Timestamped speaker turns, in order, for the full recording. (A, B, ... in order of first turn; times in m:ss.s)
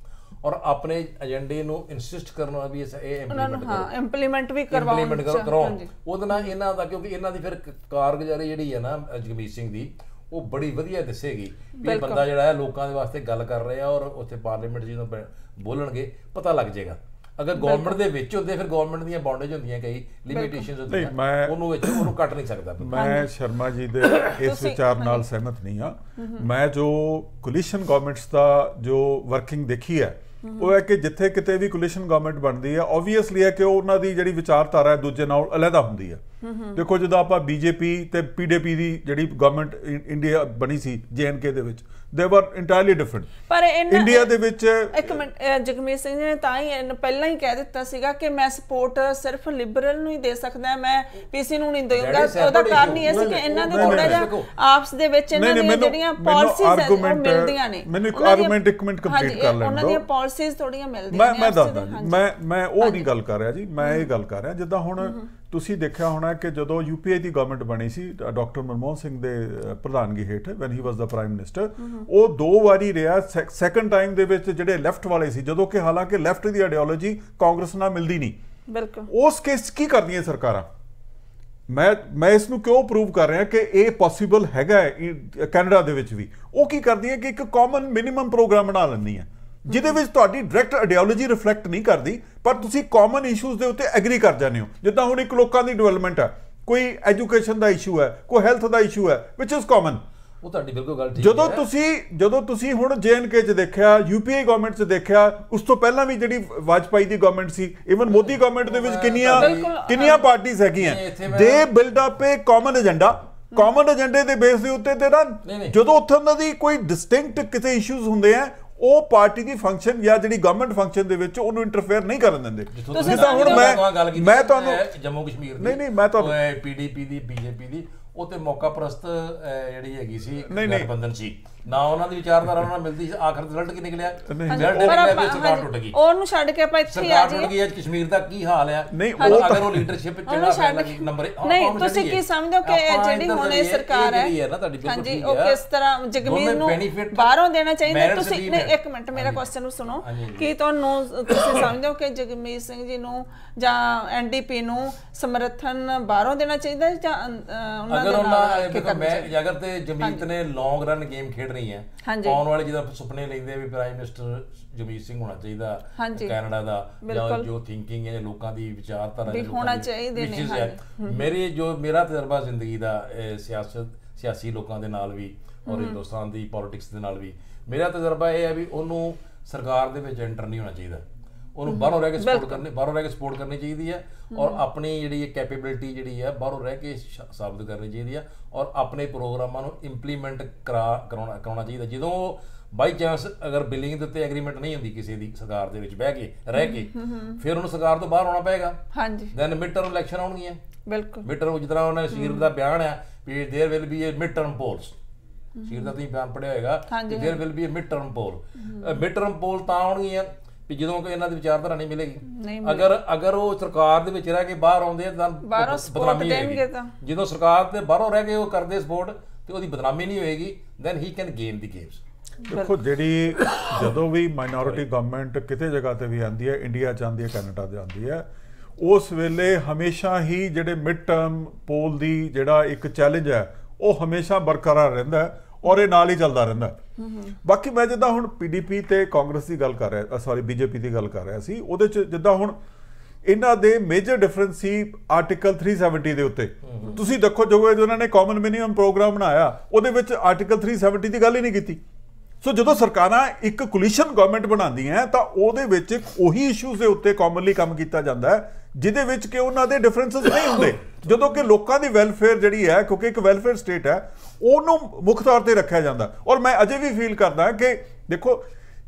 0:00.4-0:03.9 A
0:03.3-0:06.5 B
0:04.7-0:23.0 A
0:11.8-0:12.2 B
0:17.6-0:18.0 B
0:20.3-0:20.7 B
0:20.9-0:22.1 C
0:22.8-0:36.2 C
0:22.9-0:23.3 B
0:24.3-0:25.2 B
0:26.2-0:26.5 B
0:30.4-0:30.7 B
0:36.4-0:36.8 B
0:36.8-0:43.3 C
0:43.5-0:44.3 B
0:43.9-0:45.2 C
0:44.9-1:02.3 B
0:52.0-0:54.5 A
0:53.3-0:54.3 C
0:55.4-1:00.0 C
1:01.1-1:18.4 C
1:02.8-1:03.1 B
1:03.8-1:04.1 B
1:05.0-1:05.3 B
1:11.8-1:12.1 B
1:18.7-1:19.1 B
1:19.1-1:20.7 C
1:21.7-1:40.0 C
1:29.7-1:30.0 B
1:40.4-1:41.7 A
1:41.2-2:04.8 C
1:48.6-1:50.2 A
1:49.3-1:50.2 B
1:50.7-1:51.7 A
1:55.4-1:55.8 A
2:02.7-2:16.0 A
2:02.9-2:03.8 B
2:05.6-2:06.4 C
2:10.5-2:10.9 C
2:14.2-2:15.2 C
2:14.5-2:17.5 B
2:16.9-2:25.6 A
2:18.9-2:19.9 C
2:19.2-2:19.6 B
2:20.3-2:24.3 B
2:24.8-2:39.3 B
2:26.2-2:27.3 A
2:27.9-2:29.4 A
2:30.0-2:30.5 A
2:37.9-3:01.0 A
2:40.0-2:40.3 B
2:42.0-2:42.4 B
2:46.0-2:46.3 B
2:47.0-2:47.5 B
2:49.3-2:51.3 B
2:55.7-2:56.0 B
3:01.6-3:18.8 A
3:01.7-3:02.6 B
3:04.3-3:04.6 B
3:16.6-3:17.4 B
3:18.9-3:19.3 B
3:19.3-3:20.6 A
3:20.9-3:21.3 B
3:21.2-3:25.0 A
3:22.1-3:22.5 B
3:25.6-3:25.9 B
3:25.7-3:42.0 A
3:26.9-3:27.4 B
3:28.7-3:29.0 B
3:32.3-3:32.9 B
3:35.4-3:36.9 B
3:42.5-3:42.8 B
3:42.5-3:48.3 C
3:48.8-3:56.8 C
3:57.0-3:57.4 B
3:57.4-4:02.6 C
4:03.2-4:11.8 C
4:06.6-4:07.0 A
4:12.4-4:28.5 C